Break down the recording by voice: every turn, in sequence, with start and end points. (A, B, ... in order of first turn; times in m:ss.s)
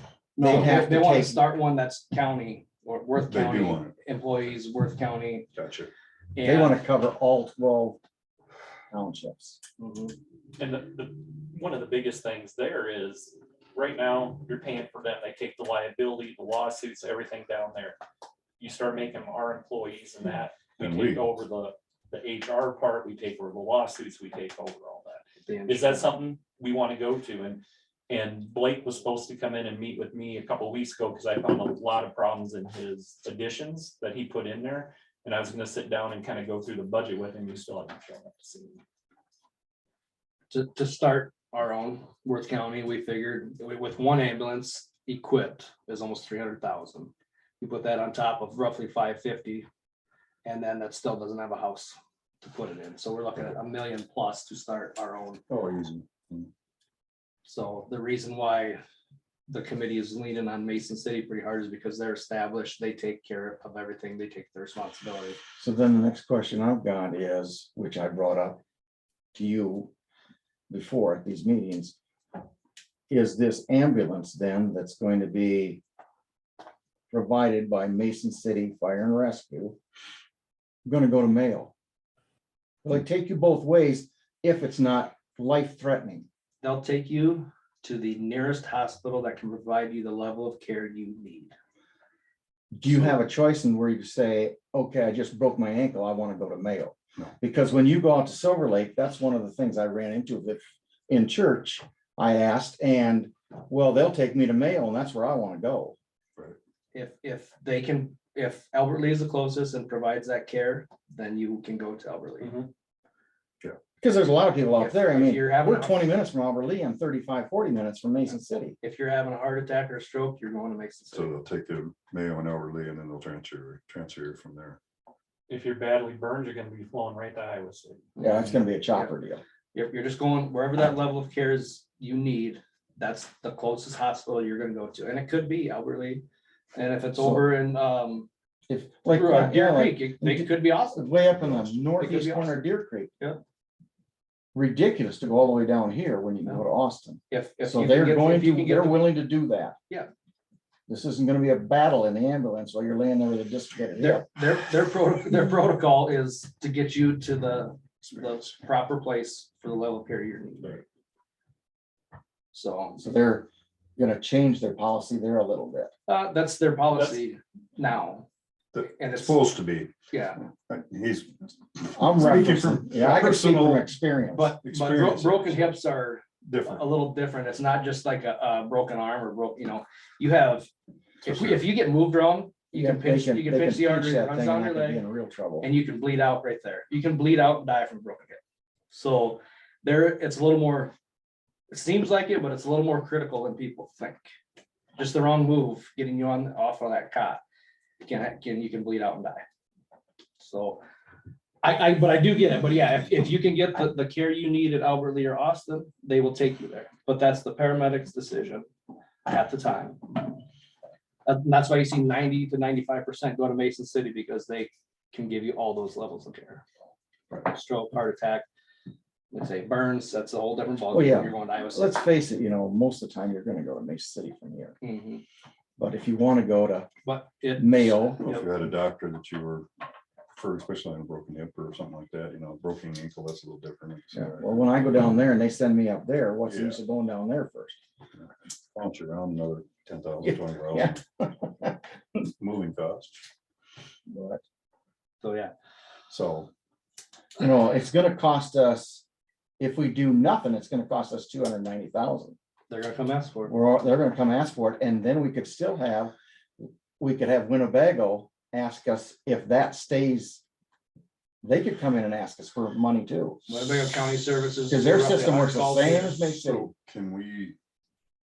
0:00.4-0:00.8 A
0:00.4-0:01.5 B
0:00.4-0:05.5 C
0:03.3-0:03.9 A
0:05.5-0:05.9 A
0:06.4-0:06.8 C
0:06.4-0:08.0 B
0:08.9-0:09.6 B
0:09.8-0:10.2 C
0:10.6-0:18.0 D
0:18.6-0:38.8 D
0:20.8-0:21.3 A
0:25.4-0:26.1 C
0:40.5-0:49.7 C
0:50.4-0:55.4 C
0:55.5-0:56.5 A
0:57.4-0:58.8 C
0:59.5-1:05.4 C
1:05.6-1:08.6 B
1:09.3-1:09.9 B
1:10.7-1:12.0 B
1:13.1-1:15.8 B
1:17.1-1:19.8 B
1:20.8-1:21.7 B
1:22.8-1:26.2 B
1:26.6-1:31.6 C
1:32.7-1:46.0 B
1:46.9-1:52.5 C
1:52.4-1:52.7 D
1:54.0-1:58.8 B
1:54.8-1:56.1 C
1:58.8-2:01.3 C
2:01.1-2:04.8 A
2:05.5-2:08.0 D
2:08.2-2:09.1 C
2:08.2-2:09.4 B
2:09.7-2:16.2 C
2:16.8-2:18.3 C
2:17.2-2:17.5 B
2:18.7-2:23.1 B
2:19.1-2:21.1 C
2:21.4-2:21.8 A
2:22.0-2:22.6 C
2:24.5-2:29.8 B
2:27.3-2:29.1 C
2:30.9-2:34.3 B
2:34.0-2:40.8 C
2:42.5-2:43.0 C
2:43.0-2:45.9 B
2:46.1-2:48.3 C
2:46.9-2:47.2 D
2:48.7-2:49.9 A
2:48.9-2:49.4 C
2:50.1-2:50.4 C
2:50.7-2:53.9 A
2:52.0-2:54.5 B
2:54.3-3:00.7 C
2:54.6-2:55.8 A
2:56.4-2:56.9 A
3:01.2-3:05.0 C
3:01.2-3:01.6 A
3:02.7-3:05.7 B
3:05.6-3:08.4 C
3:08.9-3:10.9 C
3:11.7-3:14.3 C
3:15.0-3:17.4 C
3:18.0-3:19.4 C
3:20.4-3:20.8 C
3:21.6-3:28.7 C
3:29.2-3:30.2 C
3:31.2-3:36.6 C
3:37.5-3:38.4 C
3:39.3-3:41.9 C
3:40.9-3:44.8 B
3:44.8-3:45.2 C
3:45.8-3:46.9 B
3:47.0-3:48.5 C
3:47.6-3:48.2 B
3:48.2-3:49.7 A
3:50.3-3:54.7 A
3:54.1-3:57.8 B
3:56.5-3:56.8 A
3:58.2-4:01.0 A
4:00.2-4:01.8 B
4:02.4-4:03.2 A
4:04.1-4:04.4 B
4:05.2-4:05.5 C
4:06.1-4:06.5 A
4:07.4-4:09.0 B
4:09.6-4:12.3 B
4:12.7-4:13.6 C
4:13.5-4:20.4 B
4:21.4-4:23.4 B
4:23.5-4:26.2 C
4:24.7-4:26.7 B
4:26.3-4:27.6 A